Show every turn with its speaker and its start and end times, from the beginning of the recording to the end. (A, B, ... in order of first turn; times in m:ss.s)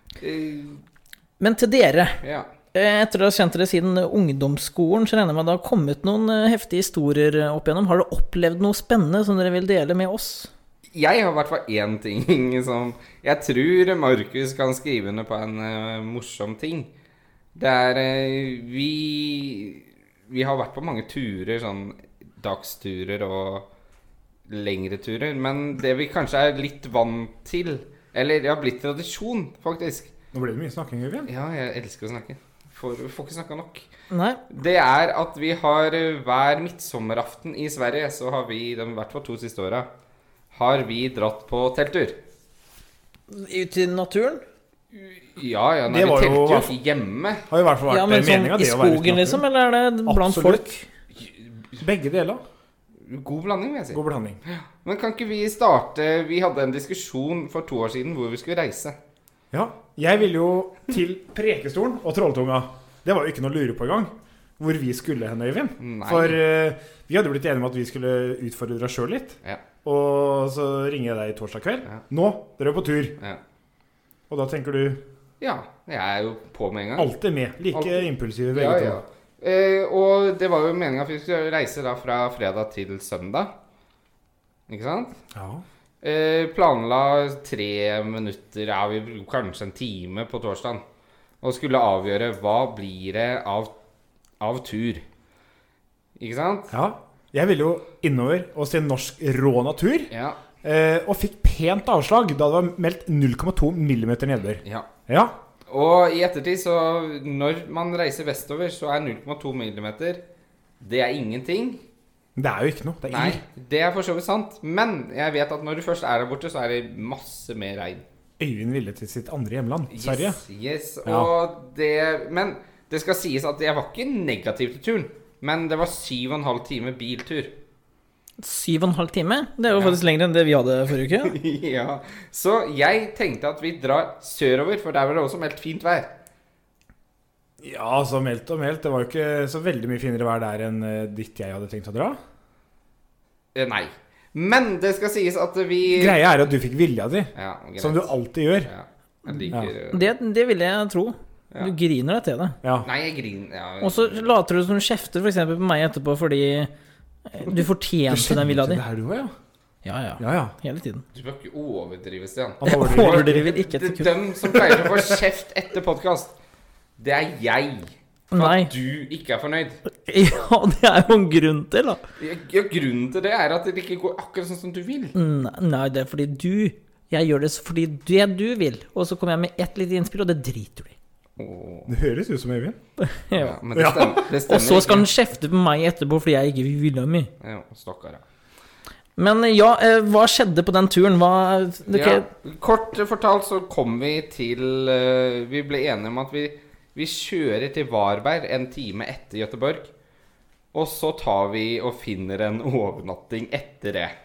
0:00.2-0:00.8 A
0:01.4-0:02.2 B
0:02.2-0:02.5 A
0:02.7-0:10.5 B
0:10.9-0:16.9 A
0:17.6-0:23.7 A
0:24.5-0:30.1 A
0:30.3-0:31.3 C
0:31.3-0:33.9 A
0:34.1-0:34.4 B
0:34.5-0:39.9 A
0:40.5-0:42.2 A
0:43.3-0:44.4 B
0:44.9-0:47.4 A
0:45.9-0:46.8 C
0:47.5-0:49.4 C
0:47.9-0:50.8 B
0:50.1-0:50.8 C
0:51.2-0:51.8 A
0:51.8-0:52.4 C
0:53.0-0:59.0 A
0:53.9-0:54.4 C
0:59.5-1:13.2 C
1:05.8-1:06.4 A
1:14.3-1:15.0 C
1:15.4-1:17.1 A
1:17.0-1:19.0 C
1:17.7-1:23.5 A
1:24.7-1:25.2 A
1:25.3-1:25.6 C
1:26.0-1:30.8 A
1:31.4-1:33.7 A
1:34.4-1:35.0 A
1:36.2-1:36.7 A
1:36.7-1:40.1 C
1:40.1-1:40.4 A
1:40.6-1:45.4 C
1:44.6-1:44.9 A
1:45.7-1:50.2 A
1:50.8-1:51.8 A
1:52.4-1:53.4 C
1:53.1-1:58.0 A
1:58.4-2:00.4 C
1:59.9-2:07.6 A
2:01.0-2:01.3 C
2:08.4-2:11.4 B
2:09.7-2:10.0 A
2:11.2-2:16.1 A
2:17.6-2:22.2 C
2:23.6-2:26.2 A
2:25.9-2:28.7 C
2:27.4-2:28.1 A
2:28.6-2:30.1 A
2:29.9-2:32.6 B
2:32.6-2:32.9 C
2:32.8-2:34.3 A
2:33.8-2:36.7 B
2:37.3-2:38.8 B
2:38.1-2:39.3 C
2:39.8-2:41.0 B
2:40.2-2:40.6 C
2:41.1-2:46.3 A
2:42.6-2:43.5 C
2:42.6-2:44.2 B
2:47.0-2:49.8 A
2:48.3-2:48.7 B
2:50.0-2:52.0 B
2:52.2-2:55.2 A
2:55.2-3:01.0 B
3:01.4-3:01.9 A
3:01.9-3:02.8 C
3:03.0-3:03.6 B
3:03.4-3:05.1 A
3:03.7-3:04.2 C
3:04.3-3:07.3 B
3:07.4-3:08.2 A
3:09.2-3:12.3 B
3:11.9-3:19.9 A
3:20.7-3:24.2 A